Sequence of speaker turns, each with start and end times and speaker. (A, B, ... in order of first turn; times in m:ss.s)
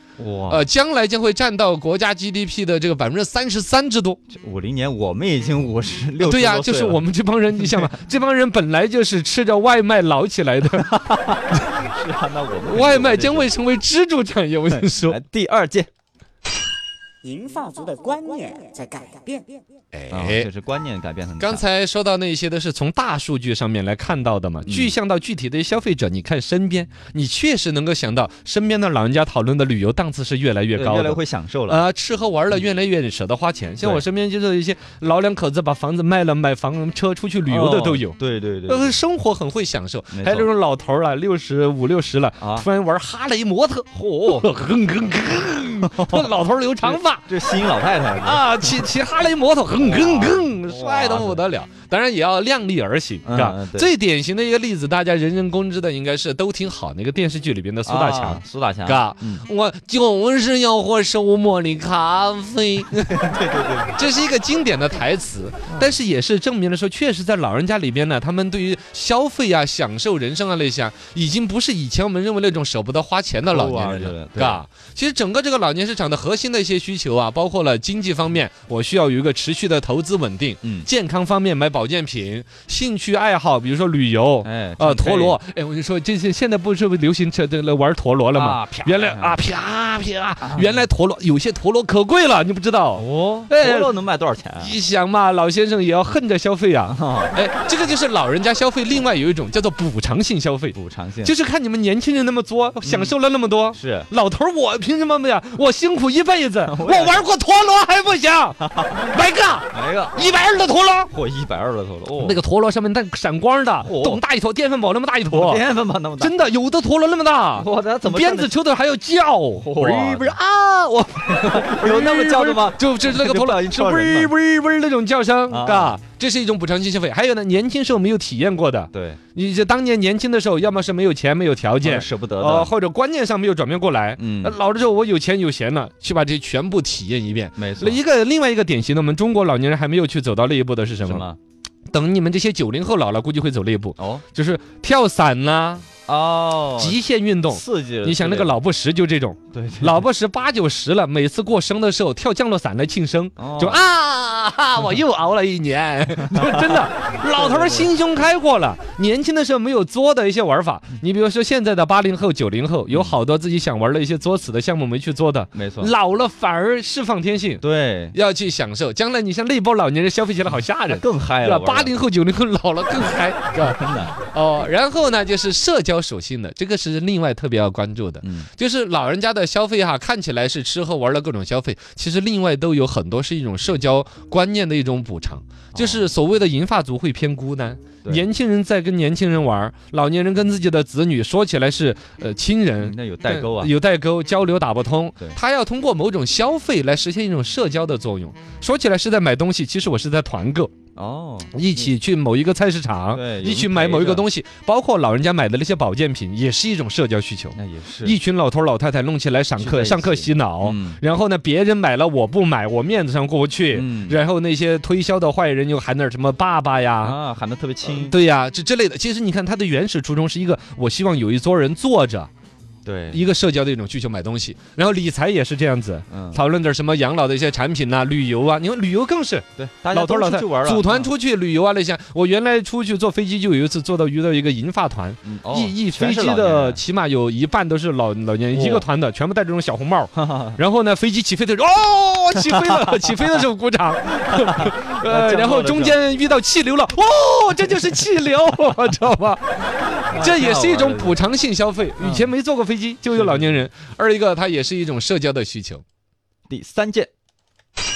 0:00.2-0:00.6 A
0:00.5-0:04.2 B
0:04.3-0:07.0 A
0:06.2-0:11.0 B
0:10.9-0:13.5 A
0:12.7-0:15.2 B
0:14.8-0:15.9 A
0:17.2-0:19.6 C
0:19.9-0:20.5 B
0:20.1-0:21.6 A
0:21.4-0:38.2 B
0:24.7-0:24.9 A
0:30.8-0:31.8 A
0:37.5-0:39.0 A
0:38.7-0:47.3 B
0:40.1-0:40.5 A
0:42.4-0:42.7 A
0:44.0-0:44.5 A
0:45.9-0:46.3 A
0:46.8-0:48.4 A
0:48.2-1:03.3 B
0:49.8-0:51.4 A
0:53.2-0:53.9 A
0:57.9-0:59.4 A
1:03.1-1:04.0 A
1:03.9-1:33.9 B
1:13.5-1:14.6 A
1:24.4-1:25.4 A
1:28.3-1:29.4 A
1:30.4-1:30.7 A
1:33.0-1:34.8 A
1:34.6-1:51.1 B
1:36.9-1:37.4 A
1:40.7-1:41.3 A
1:42.8-1:43.1 A
1:43.7-1:44.1 A
1:46.7-1:47.3 A
1:48.6-1:48.9 A
1:49.7-1:50.3 A
1:51.1-1:52.4 A
1:52.2-1:55.6 B
1:53.8-1:54.2 A
1:55.3-1:56.3 A
1:56.2-2:21.3 B
1:57.6-1:58.5 A
1:59.6-2:00.4 A
2:01.3-2:04.3 A
2:05.5-2:06.0 A
2:08.9-2:09.2 A
2:11.8-2:12.7 A
2:14.2-2:14.6 A
2:17.6-2:18.0 A
2:21.0-2:21.4 A
2:21.9-2:25.9 B
2:24.0-2:24.2 A
2:26.1-2:28.5 A
2:26.8-3:20.7 B
2:29.5-2:30.0 A
2:33.4-2:33.8 A
2:36.4-2:36.7 A
2:37.3-2:37.9 A
2:42.9-2:43.2 A
2:45.5-2:45.9 A
2:47.6-2:48.2 A
2:50.9-2:52.0 A
2:53.6-2:54.2 A
2:58.2-2:58.5 A
3:05.7-3:06.1 A
3:12.8-3:13.7 A
3:21.0-3:21.6 A
3:21.5-3:37.2 B
3:23.1-3:24.3 A
3:27.6-3:28.2 A
3:29.6-3:31.0 A
3:33.7-3:34.2 A
3:37.0-3:38.2 A
3:37.8-3:42.3 B
3:42.8-3:43.2 A
3:43.1-4:15.8 B
3:46.1-3:46.4 A
3:49.6-3:51.1 A
3:55.2-3:56.8 A
3:58.5-3:58.9 A
4:00.2-4:00.6 A
4:04.4-4:06.0 A
4:10.0-4:11.2 A
4:12.0-4:12.3 A
4:13.1-4:13.6 A
4:16.5-4:17.1 A